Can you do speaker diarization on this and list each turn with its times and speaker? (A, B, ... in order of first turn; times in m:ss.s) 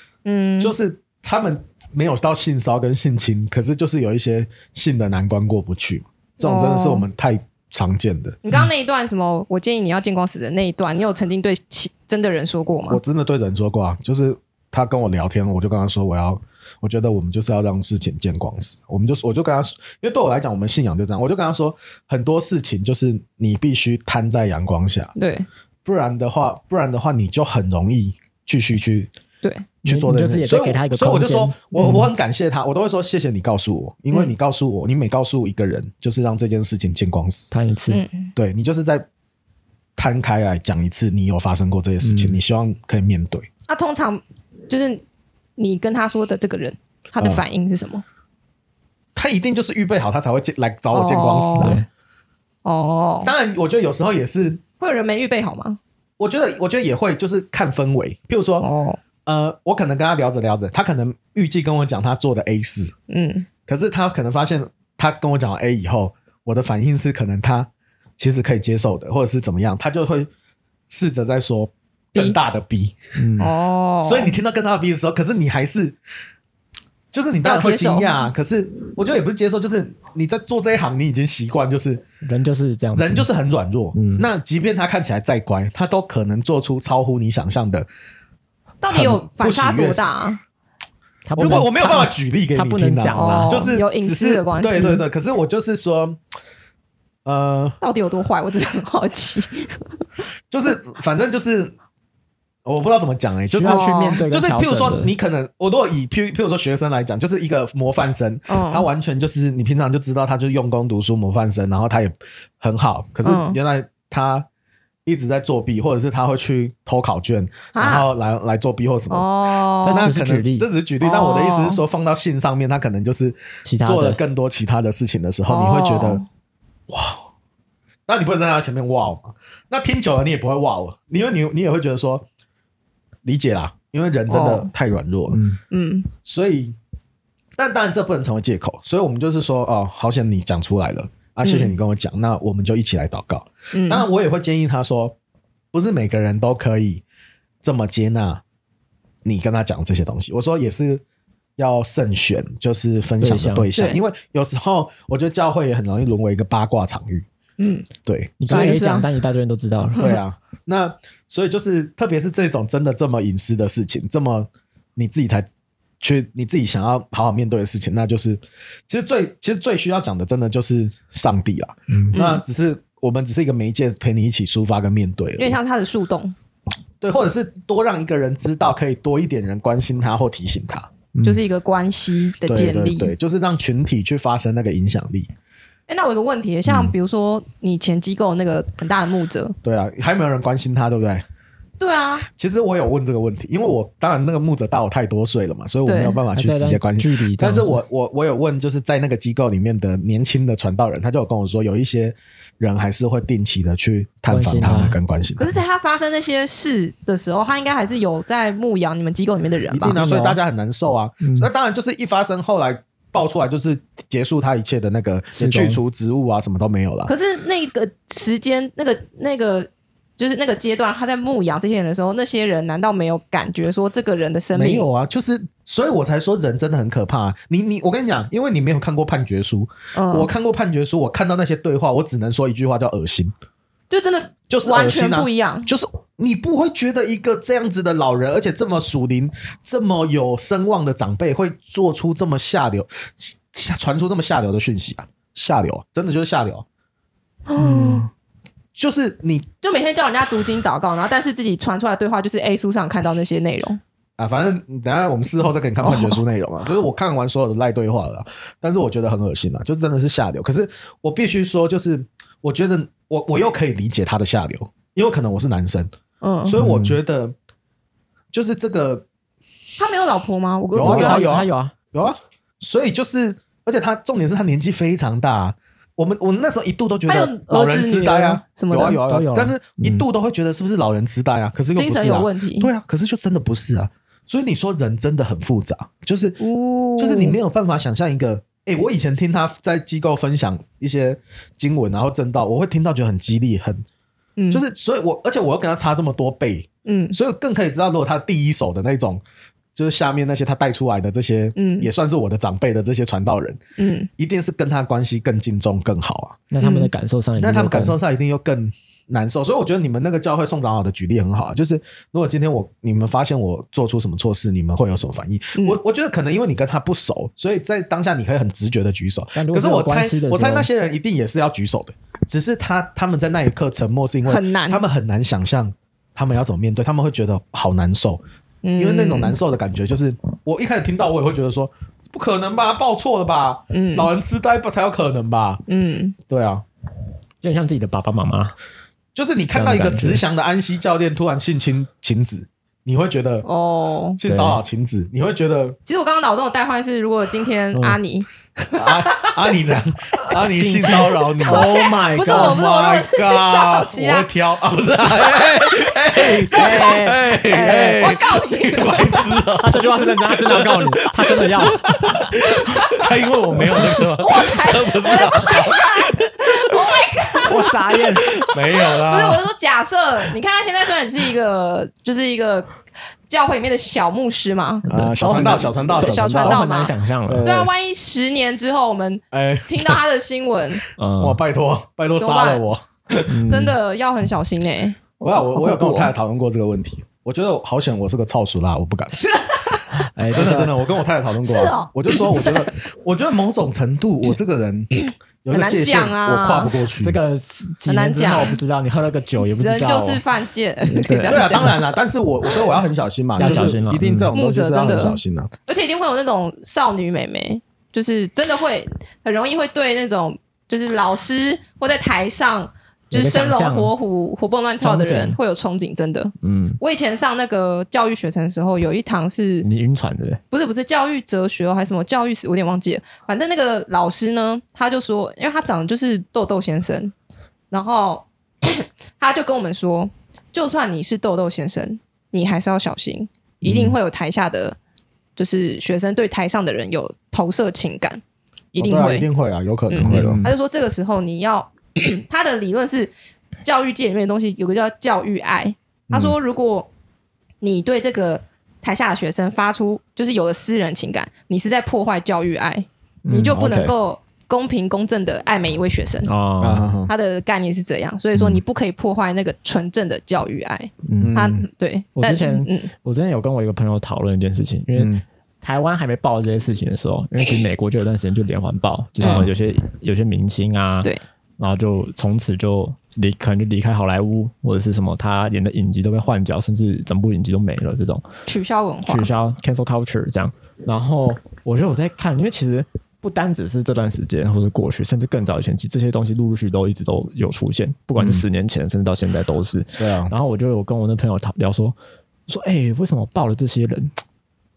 0:00.2-0:00.7 A
0:00.6-0:08.4 B
0:06.4-0:07.0 A
0:08.4-0:13.0 A
0:12.9-0:25.1 B
0:25.2-0:25.4 A
0:25.8-0:29.1 B
0:29.4-0:29.7 A
0:29.8-0:37.5 B
0:29.8-0:32.1 C
0:37.5-0:38.0 C
0:37.9-0:38.3 A
0:38.4-0:39.1 B
0:40.0-0:43.5 B
0:42.0-0:42.4 C
0:43.7-0:45.0 A
0:45.6-0:48.0 A
0:49.1-0:51.8 B
0:50.9-0:51.8 A
0:51.5-0:51.8 C
0:52.6-0:53.3 A
0:53.2-0:54.6 B
0:54.8-0:55.8 A
0:56.2-0:58.6 B
0:58.6-0:59.0 A
0:59.2-1:02.9 B
1:03.1-1:03.5 A
1:03.7-1:10.3 B
1:10.9-1:13.0 B
1:13.2-1:13.5 C
1:13.4-1:14.3 A
1:14.0-1:16.0 B
1:17.1-1:22.0 B
1:17.4-1:18.2 A
1:22.2-1:23.2 C
1:22.9-1:27.9 B
1:23.9-1:24.3 C
1:28.8-1:30.4 A
1:28.9-1:30.0 B
1:31.2-1:33.7 C
1:31.4-1:36.2 B
1:33.1-1:35.0 A
1:37.2-1:37.8 B
1:37.8-1:39.9 A
1:40.5-1:41.7 B
1:42.6-1:54.4 B
1:43.5-1:45.1 C
1:43.6-1:44.2 A
1:48.5-1:48.9 A
1:53.2-1:53.6 A
1:55.0-1:59.3 B
1:57.7-1:58.0 A
1:59.1-2:00.1 A
1:59.8-2:00.7 C
1:59.8-2:06.2 B
2:01.0-2:01.8 A
2:03.6-2:04.2 C
2:05.5-2:06.2 A
2:06.9-2:07.3 B
2:08.1-2:12.3 B
2:13.2-2:15.4 B
2:14.3-2:14.7 A
2:15.3-2:15.6 C
2:15.7-2:16.1 A
2:16.2-2:16.8 B
2:17.6-2:25.2 B
2:21.4-2:21.7 A
2:23.7-2:24.0 A
2:25.7-2:27.0 B
2:27.6-2:28.4 B
2:29.2-2:31.0 B
2:31.6-2:37.2 B
2:33.2-2:33.7 C
2:37.6-2:37.9 A
2:38.0-2:38.8 B
2:38.4-2:40.2 C
2:38.5-2:39.1 A
2:39.9-2:45.5 B
2:46.0-2:55.6 B
2:51.9-2:52.1 C
2:52.1-2:52.4 A
2:55.4-2:56.3 A
2:57.0-3:00.9 B
3:01.1-3:01.4 C
3:01.2-3:03.1 A
3:02.4-3:05.3 B
3:05.9-3:09.5 A
3:09.6-3:11.2 B
3:11.8-3:12.2 A
3:12.2-3:25.5 B
3:15.8-3:16.2 A
3:16.3-3:17.8 C
3:24.3-3:25.0 C
3:25.4-3:29.9 A
3:29.7-3:37.1 B
3:29.8-3:30.4 C
3:31.2-3:31.5 C
3:35.3-3:35.8 C
3:37.1-3:44.8 A
3:44.5-3:53.3 B
3:49.9-3:50.3 A
3:53.9-3:55.7 A
3:54.5-4:06.6 B
4:07.5-4:08.1 A
4:07.6-4:08.0 C
4:08.7-4:09.5 B
4:09.6-4:13.8 A
4:14.2-4:25.9 B
4:15.8-4:16.2 A
4:26.2-4:26.6 A
4:26.4-4:27.3 B
4:26.6-4:27.0 C
4:28.3-4:29.0 B
4:29.8-4:31.3 A
4:30.7-4:46.4 B
4:30.8-4:31.7 C
4:37.1-4:39.0 A
4:39.0-4:40.0 C
4:41.7-4:42.7 A
4:46.4-4:47.4 A
4:47.0-4:53.8 B
4:54.4-4:54.6 A
4:54.5-4:59.2 B
4:56.8-4:57.2 A
4:59.7-5:03.6 B
5:01.6-5:01.9 A
5:03.8-5:04.1 A
5:04.2-5:06.4 B
5:06.5-5:08.0 C
5:06.6-5:06.9 A
5:07.4-5:28.2 B
5:19.4-5:20.7 C
5:24.2-5:24.8 A
5:28.6-5:29.4 A
5:28.8-5:35.6 B
5:33.7-5:34.1 A
5:35.7-5:36.2 A
5:36.3-5:36.6 B
5:37.4-5:38.6 C
5:39.1-5:43.5 B
5:39.5-5:40.2 C
5:43.4-5:44.2 A
5:44.2-5:45.8 B
5:44.2-5:44.6 C
5:45.8-5:49.5 A
5:48.7-6:06.3 B
5:50.3-5:52.6 C
5:51.4-5:54.3 A
5:56.4-5:58.1 C
5:58.0-5:59.2 A
5:59.5-6:02.3 C
6:02.1-6:03.0 A
6:03.7-6:04.0 C
6:04.2-6:12.7 A
6:07.4-6:08.4 C
6:08.4-6:09.4 B
6:13.3-6:20.8 A
6:14.8-6:17.5 C
6:14.9-6:16.6 B
6:17.3-6:17.7 B
6:19.3-6:20.0 B
6:21.0-6:21.4 C
6:21.2-6:23.4 B
6:22.2-6:22.6 A
6:23.3-6:23.8 C
6:23.5-6:26.1 A
6:25.2-6:29.2 B
6:29.2-6:29.8 A
6:30.0-6:30.7 C
6:30.3-6:34.9 B
6:31.4-6:32.7 A
6:35.0-6:36.7 A
6:35.4-6:37.2 B
6:37.0-6:40.2 C
6:37.9-6:38.6 A
6:39.5-6:41.8 A
6:40.8-6:41.8 C
6:41.3-6:45.5 B
6:43.4-6:43.8 A
6:43.4-6:44.3 C
6:44.3-6:59.7 A
6:53.1-6:53.9 C
6:54.8-6:55.4 C
6:56.4-6:56.8 C
6:59.6-7:00.4 C
7:00.5-7:07.1 A
7:07.7-7:14.8 A
7:13.6-7:13.9 B
7:15.4-7:18.2 A
7:18.7-7:19.3 A
7:18.8-7:20.5 B
7:19.9-7:23.1 A
7:20.0-7:20.5 C
7:23.6-7:26.9 A
7:26.1-7:26.3 B
7:27.6-7:36.3 A
7:33.2-7:33.6 C
7:33.5-7:33.9 B
7:36.2-7:36.9 C
7:36.6-7:37.1 B
7:37.1-7:42.9 A
7:41.0-7:41.4 C
7:41.2-7:41.6 B
7:42.2-7:58.2 C
7:44.9-7:45.2 B
7:49.2-7:49.5 A
7:49.2-7:49.5 B
7:58.4-7:59.3 A
7:59.0-8:12.0 C
8:08.2-8:08.4 B
8:10.0-8:10.3 B
8:12.5-8:14.1 C